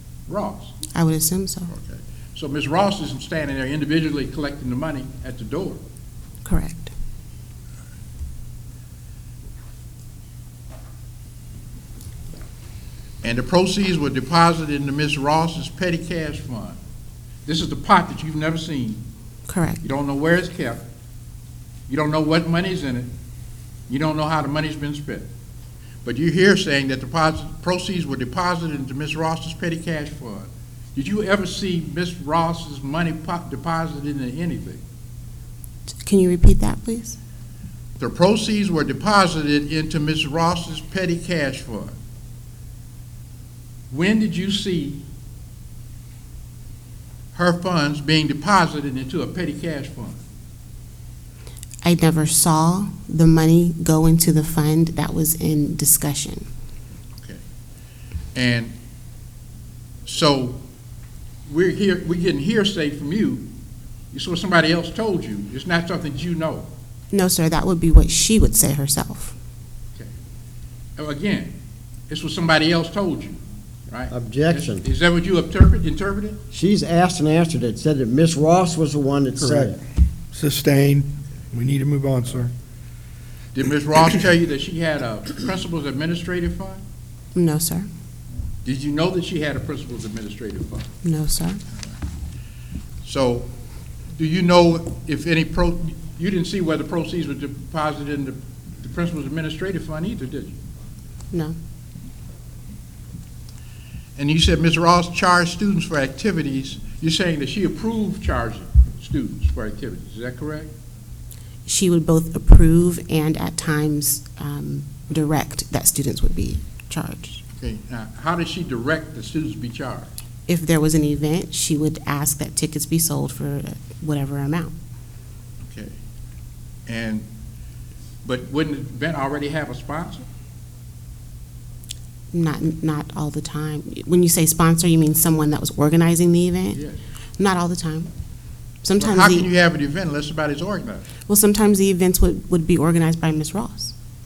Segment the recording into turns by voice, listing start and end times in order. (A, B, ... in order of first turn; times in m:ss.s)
0:00.3-0:00.8 A
0:00.9-0:01.7 B
0:01.7-0:05.8 A
0:06.4-0:06.9 B
0:13.2-0:16.8 A
0:17.4-0:19.0 A
0:19.5-0:19.8 B
0:19.8-0:20.8 A
0:21.9-0:23.1 A
0:23.9-0:25.3 A
0:26.0-0:34.8 A
0:36.0-0:37.2 B
0:38.0-0:41.9 A
0:43.9-0:45.0 A
0:47.3-0:50.2 A
0:51.8-0:56.5 B
0:58.3-0:58.7 A
1:00.0-1:00.6 A
1:01.5-1:03.4 A
1:04.1-1:06.7 A
1:07.1-1:09.3 B
1:11.0-1:11.6 A
1:12.1-1:16.4 A
1:14.1-1:14.8 C
1:16.5-1:19.8 C
1:19.4-1:19.7 D
1:20.3-1:22.5 D
1:23.5-1:26.8 A
1:27.3-1:27.9 B
1:28.6-1:30.9 A
1:31.0-1:31.6 B
1:33.0-1:33.5 A
1:34.1-1:40.6 A
1:41.3-1:41.6 B
1:44.2-1:50.7 A
1:51.6-1:57.4 B
1:57.6-2:00.1 A
2:00.5-2:04.7 B
2:05.6-2:06.0 A
2:06.9-2:07.3 A
2:08.2-2:10.2 A
2:12.3-2:16.8 B
2:16.7-2:17.0 A
2:17.4-2:18.1 B
2:18.8-2:19.5 B
2:19.0-2:21.1 A
2:21.3-2:23.9 B